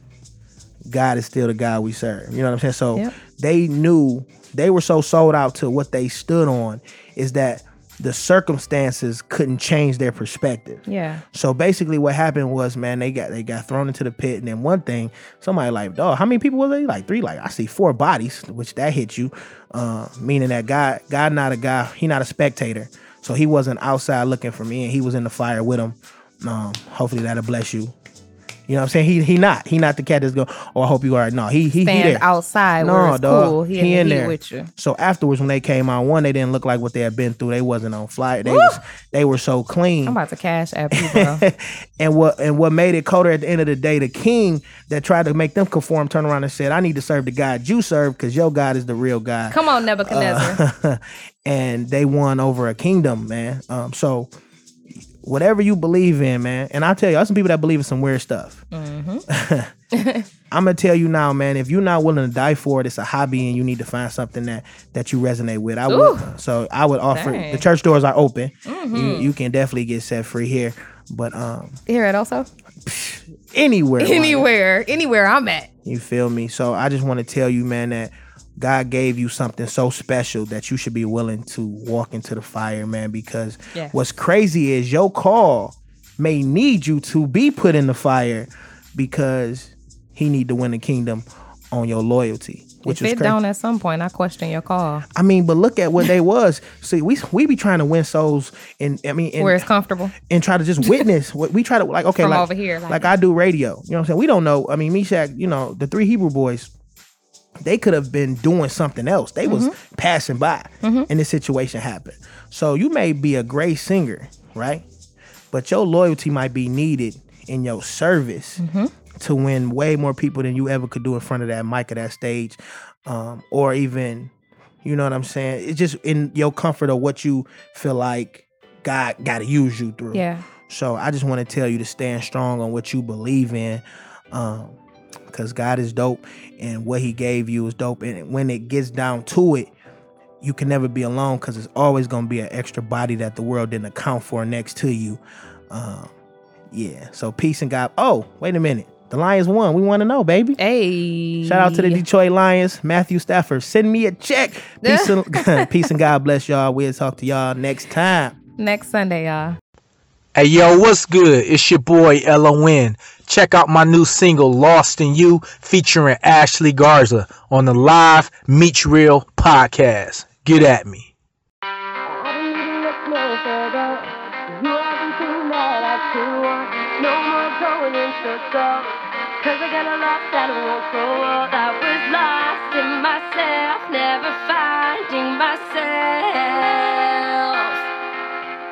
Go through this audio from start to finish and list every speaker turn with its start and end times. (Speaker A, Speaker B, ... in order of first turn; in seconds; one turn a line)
Speaker A: 0.9-27.9
Speaker B: 10.9-11.2
Speaker A: 28.7-32.2
Speaker B: 31.8-34.7
Speaker A: 32.8-40.2
Speaker B: 38.5-38.8
Speaker B: 40.1-41.4
Speaker A: 40.9-54.3
Speaker B: 49.5-50.6
Speaker A: 55.2-58.6
Speaker B: 58.7-59.2
Speaker A: 59.3-59.7
Speaker B: 59.9-60.3
Speaker A: 60.5-71.8
Speaker B: 65.9-66.3
Speaker B: 67.1-67.7
Speaker B: 68.7-69.3
Speaker B: 71.9-72.5
Speaker A: 72.8-74.5
Speaker B: 74.0-75.7
Speaker A: 75.8-93.4
Speaker B: 83.7-84.0
Speaker B: 92.9-95.0
Speaker A: 95.1-99.7
Speaker B: 99.4-100.1
Speaker A: 100.2-106.7
Speaker B: 102.2-103.1
Speaker A: 107.6-114.9
Speaker B: 109.4-109.8
Speaker B: 110.8-111.1
Speaker A: 115.5-118.6
Speaker B: 118.6-118.9
Speaker A: 119.2-124.3
Speaker A: 124.8-134.8
Speaker B: 130.1-130.4
Speaker A: 135.3-139.7
Speaker A: 140.4-146.1
Speaker A: 146.7-150.6
Speaker B: 150.6-152.0
Speaker A: 151.4-158.4
Speaker B: 154.8-155.7
Speaker B: 158.6-159.6
Speaker C: 160.3-171.1
Speaker D: 172.1-178.9
Speaker D: 179.4-187.8